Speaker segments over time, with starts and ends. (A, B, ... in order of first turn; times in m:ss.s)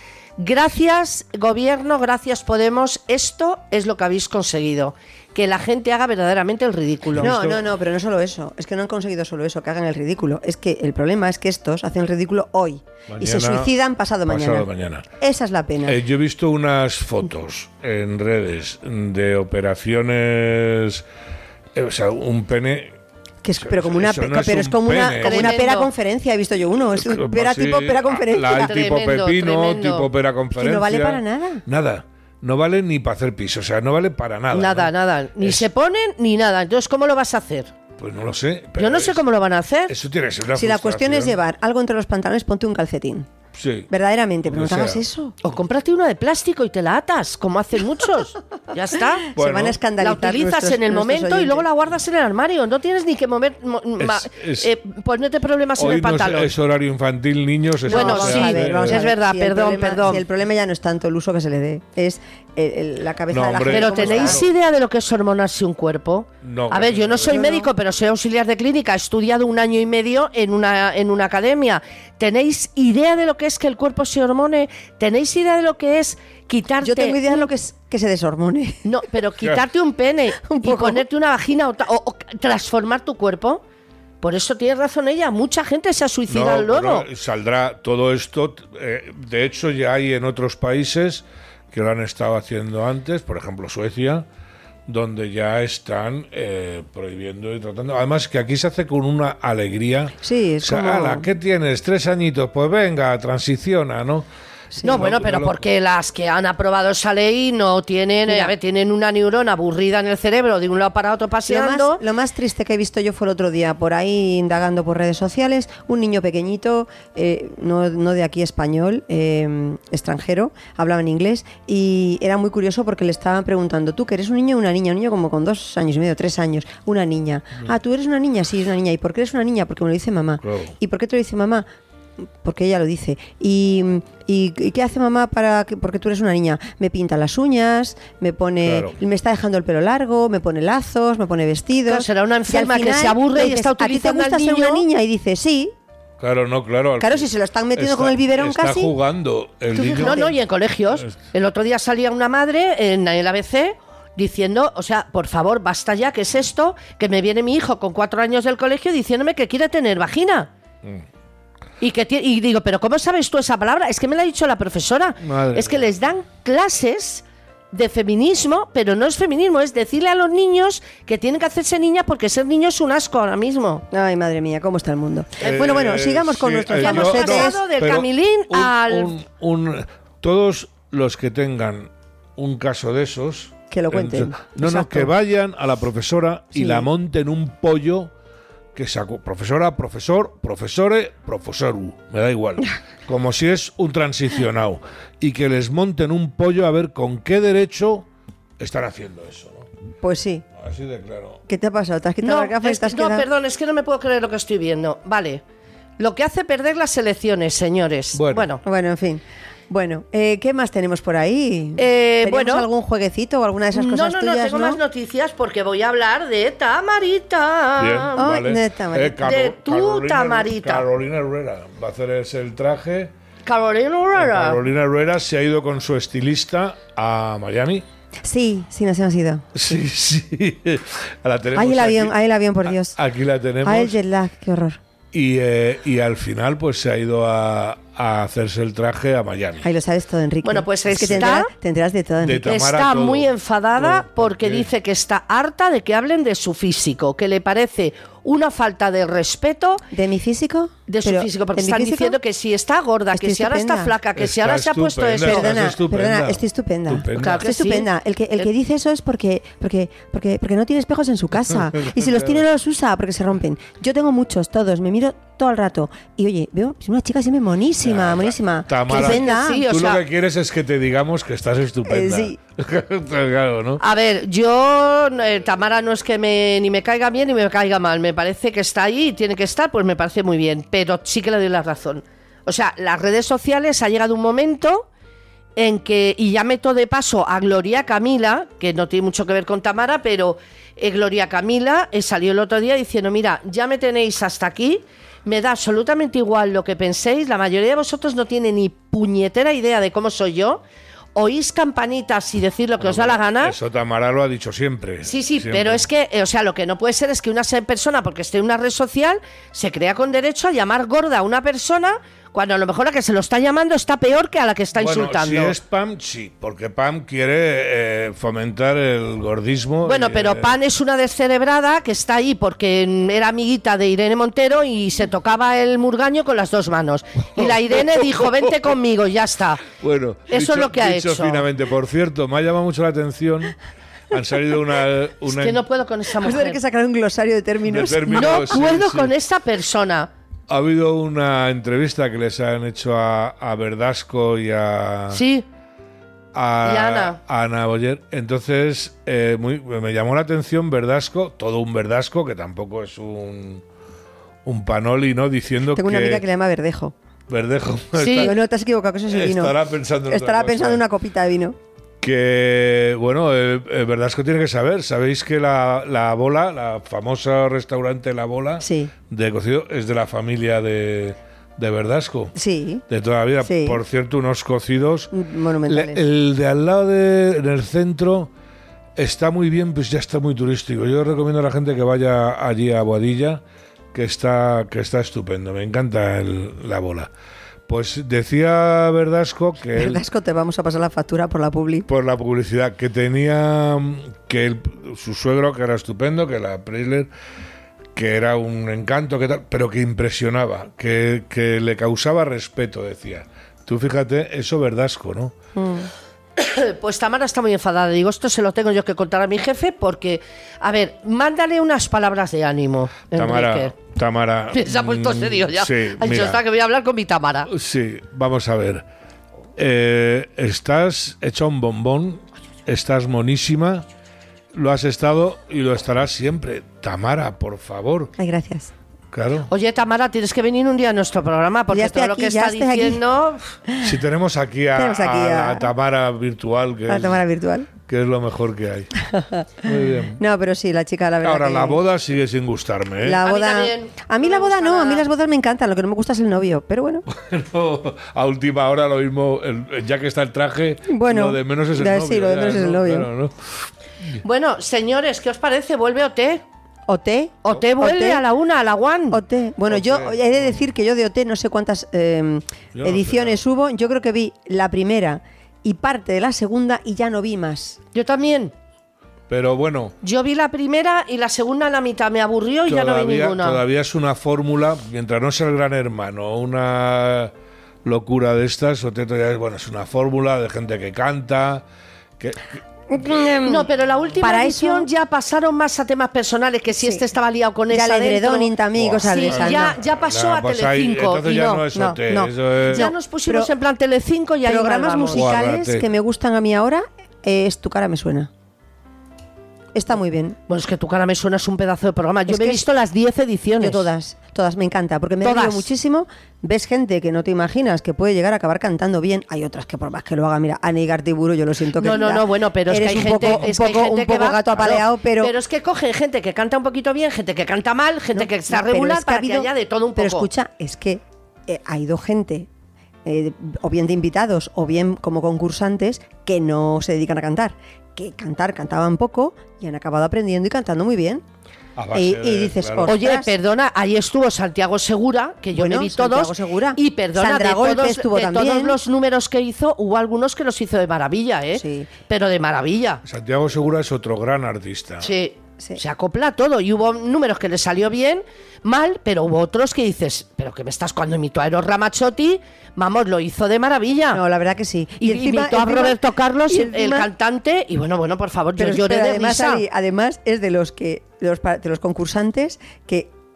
0:00.4-0:07.3 A
0:07.1-0:07.6 B
0:07.2-0:14.7 C
0:13.1-0:13.7 B
0:14.3-0:15.0 B
0:15.2-0:16.0 C
0:15.8-0:21.0 B
0:21.7-0:22.9 B
0:23.4-0:28.8 C
0:23.6-0:25.6 B
0:25.2-0:25.9 A
0:27.0-0:35.7 B
0:28.5-0:30.1 A
0:30.5-0:31.6 C
0:34.5-0:37.7 A
0:38.0-0:39.2 B
0:38.8-0:39.9 A
0:39.9-0:41.3 B
0:40.5-0:43.3 C
0:43.6-0:43.9 B
0:43.9-0:45.3 C
0:44.4-0:45.0 B
0:45.4-0:49.3 A
0:49.3-0:51.6 C
0:49.3-0:49.8 B
0:50.0-0:56.5 A
0:54.0-0:54.7 B
0:55.8-0:59.1 B
0:57.8-1:04.4 C
0:57.9-1:00.2 A
1:03.3-1:04.5 B
1:03.7-1:17.5 A
1:06.4-1:07.4 B
1:07.3-1:07.7 C
1:16.8-1:18.8 C
1:18.8-1:23.6 A
1:20.4-1:21.0 C
1:24.2-1:27.0 A
1:26.3-1:34.2 B
1:34.9-1:44.2 B
1:40.2-1:41.3 C
1:44.8-1:45.6 B
1:44.8-1:52.0 A
1:48.2-1:48.5 C
1:51.5-2:11.6 C
2:10.4-2:10.7 B
2:12.4-2:25.7 C
2:18.6-2:19.0 B
2:21.8-2:24.8 A
2:26.2-2:30.2 B
2:27.0-2:28.9 C
2:29.7-2:30.3 C
2:29.8-2:40.5 A
2:41.8-2:53.8 A
2:45.2-2:45.9 B
2:53.9-2:57.6 C
2:55.4-3:08.1 B
2:56.7-2:59.2 A
3:03.7-3:05.1 C
3:06.5-3:06.9 C
3:08.7-3:18.0 B
3:18.6-3:19.7 B
3:20.0-3:20.4 C
3:20.6-3:21.4 B
3:21.5-3:23.3 C
3:22.2-3:25.4 A
3:26.0-3:28.6 A
3:28.1-3:28.4 B
3:28.6-3:34.8 C
3:31.8-3:32.7 A
3:33.7-3:38.2 A
3:37.8-3:43.1 B
3:38.2-3:39.3 C
3:39.2-3:40.9 A
3:43.4-3:44.6 A
3:44.2-3:47.8 B
3:48.2-3:49.7 C
3:49.5-3:52.1 B
3:51.6-3:53.0 C
3:52.7-3:54.0 B
3:53.6-3:54.8 C
3:55.1-3:59.7 B
3:59.6-4:02.5 C
4:00.4-4:01.5 A
4:02.2-4:04.7 B
4:02.4-4:09.8 A
4:09.9-4:12.2 C
4:10.9-4:15.5 A
4:13.1-4:13.9 C
4:14.2-4:17.4 B
4:15.2-4:29.6 C
4:17.2-4:17.9 A
4:21.7-4:22.4 B
4:27.8-4:33.8 B
4:28.9-4:30.0 A
4:31.8-4:32.4 C
4:33.8-4:44.9 A
4:45.6-5:00.6 A
5:01.1-5:03.6 A
5:02.8-5:05.8 B
5:05.0-5:15.5 A
5:14.7-5:20.6 B
5:19.8-5:29.7 A
5:29.7-5:33.6 B
5:30.3-5:31.4 A
5:34.1-5:35.6 B
5:35.2-5:36.6 A
5:36.2-5:38.6 C
5:37.6-5:39.1 B
5:38.1-5:40.1 A
5:40.5-5:45.2 B
5:45.1-5:45.4 A
5:46.3-5:53.6 B
5:46.6-5:47.2 A
5:54.4-5:56.2 B
5:55.7-5:56.9 C
5:57.3-5:58.4 B
5:58.0-5:58.3 A
5:58.2-5:59.5 C
5:59.1-6:00.8 B
6:00.1-6:01.6 C
6:02.0-6:12.3 B
6:08.6-6:08.9 C
6:12.3-6:12.8 C
6:12.9-6:15.1 B
6:13.4-6:13.8 C
6:15.1-6:16.0 C
6:15.7-6:18.3 B
6:19.0-6:23.4 B
6:23.9-6:27.1 B
6:27.7-6:30.0 B
6:29.8-6:31.9 C
6:31.9-6:37.1 B
6:37.9-6:45.3 B
6:45.5-6:45.9 C
6:46.4-6:53.7 A
6:53.1-6:56.4 B
6:54.5-6:57.5 A
6:57.5-6:58.8 B
6:59.6-7:03.8 B
7:04.5-7:08.1 B
7:08.2-7:08.7 C
7:09.1-7:09.5 B
7:09.5-7:13.5 A
7:11.7-7:13.0 C
7:13.8-7:17.2 B
7:14.7-7:15.7 C
7:16.9-7:17.7 C
7:17.8-7:18.9 B
7:19.0-7:21.8 C
7:19.6-7:20.2 B
7:21.2-7:23.2 B
7:23.0-7:27.0 C
7:23.2-7:25.1 A
7:27.1-7:34.2 B
7:30.9-7:33.1 C
7:34.2-7:36.4 A
7:36.9-7:38.2 C
7:37.4-7:39.2 A
7:39.1-7:47.8 C
7:39.7-7:40.3 B
7:42.7-7:43.4 B
7:47.9-7:48.5 A
7:49.3-7:49.9 B
7:50.0-7:53.6 A
7:52.7-7:57.3 B
7:57.8-8:01.6 B
8:02.2-8:03.2 B
8:02.9-8:03.7 C
8:03.4-8:08.5 A
8:04.2-8:04.9 C
8:07.7-8:09.8 C
8:08.7-8:12.9 B
8:09.1-8:11.5 A
8:11.3-8:13.5 C
8:12.7-8:15.3 A
8:14.4-8:18.3 C
8:15.1-8:15.9 B
8:19.7-8:20.4 C
8:20.5-8:23.9 A
8:22.3-8:22.6 C
8:23.6-8:35.3 C
8:25.2-8:25.7 A
8:31.8-8:40.3 A
8:38.2-8:42.5 C
8:43.0-8:51.2 C
8:51.8-8:52.9 B
8:51.9-8:53.3 C
8:52.8-9:03.0 A
8:55.5-8:58.8 C
9:01.5-9:01.9 C
9:03.0-9:05.1 B
9:05.0-9:14.2 A
9:14.1-9:17.1 C
9:15.0-9:19.6 A
9:18.6-9:23.1 C